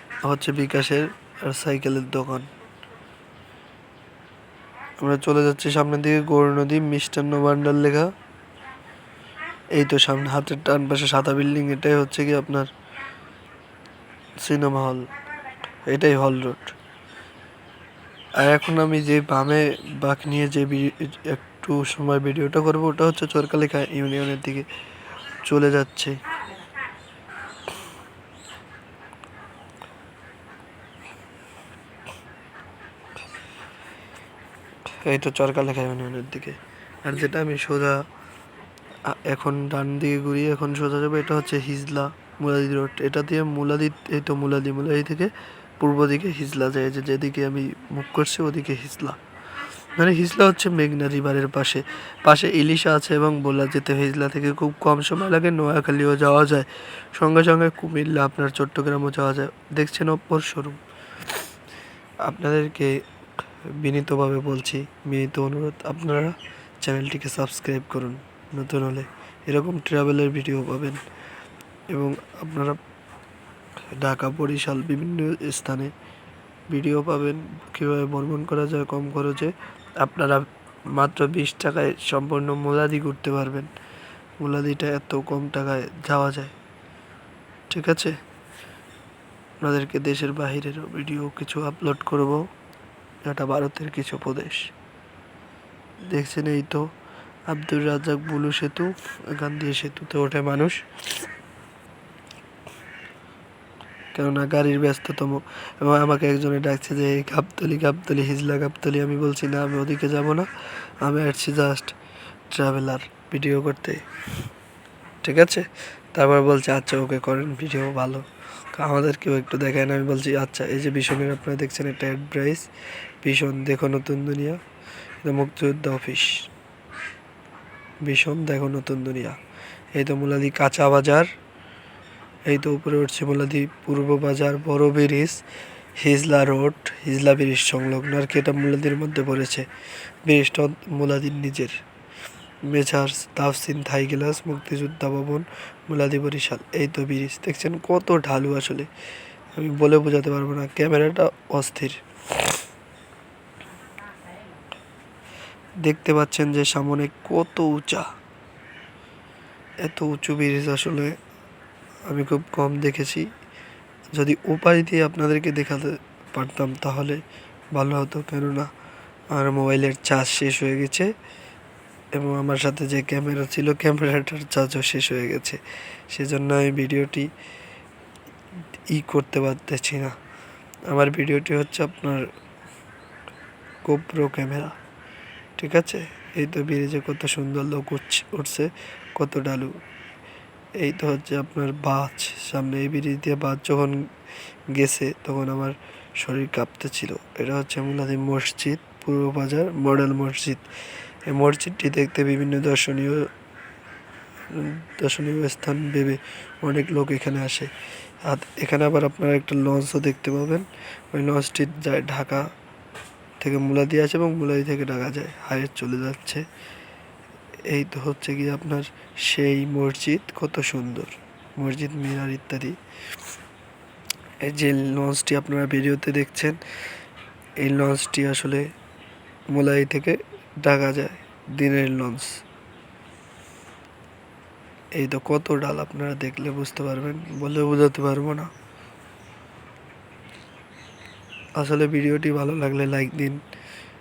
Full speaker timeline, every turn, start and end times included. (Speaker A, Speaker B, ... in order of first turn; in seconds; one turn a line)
Speaker A: 0.2-2.5
Speaker A: 5.0-8.1
Speaker A: 9.7-12.7
Speaker A: 14.4-15.1
Speaker A: 15.8-16.7
Speaker A: 18.4-24.6
Speaker A: 25.4-26.2
Speaker A: 35.0-38.0
Speaker A: 39.0-49.2
Speaker A: 50.0-60.8
Speaker A: 62.2-63.0
Speaker A: 63.7-71.0
Speaker A: 71.9-72.8
Speaker A: 73.9-75.9
Speaker A: 76.7-83.7
Speaker A: 84.4-86.5
Speaker A: 87.7-88.2
Speaker A: 89.6-92.4
Speaker A: 93.2-94.7
Speaker A: 96.1-96.9
Speaker A: 97.5-100.8
Speaker A: 104.1-110.5
Speaker A: 111.0-111.9
Speaker A: 112.5-114.0
Speaker A: 115.2-122.7
Speaker A: 123.2-124.6
Speaker A: 125.2-126.5
Speaker A: 128.0-129.4
Speaker A: 129.9-131.3
Speaker A: 132.5-135.4
Speaker A: 135.9-139.7
Speaker A: 140.2-141.8
Speaker A: 142.6-148.9
Speaker A: 149.5-152.5
Speaker A: 155.8-158.1
Speaker A: 159.8-161.2
Speaker A: 162.1-163.3
Speaker A: 164.1-167.2
Speaker A: 167.7-168.7
Speaker A: 169.3-171.1
Speaker A: 172.1-177.3
Speaker A: 178.9-180.2
Speaker A: 180.9-182.3
Speaker A: 183.8-184.7
Speaker A: 185.6-189.7
Speaker A: 190.8-194.1
Speaker A: 194.7-200.7
Speaker A: 201.3-203.3
Speaker A: 204.5-207.7
Speaker A: 208.2-212.5
Speaker A: 213.4-216.4
Speaker A: 217.7-222.8
Speaker A: 224.4-226.6
Speaker A: 227.6-228.7
Speaker A: 229.5-232.4
Speaker A: 234.9-238.5
Speaker A: 241.6-243.4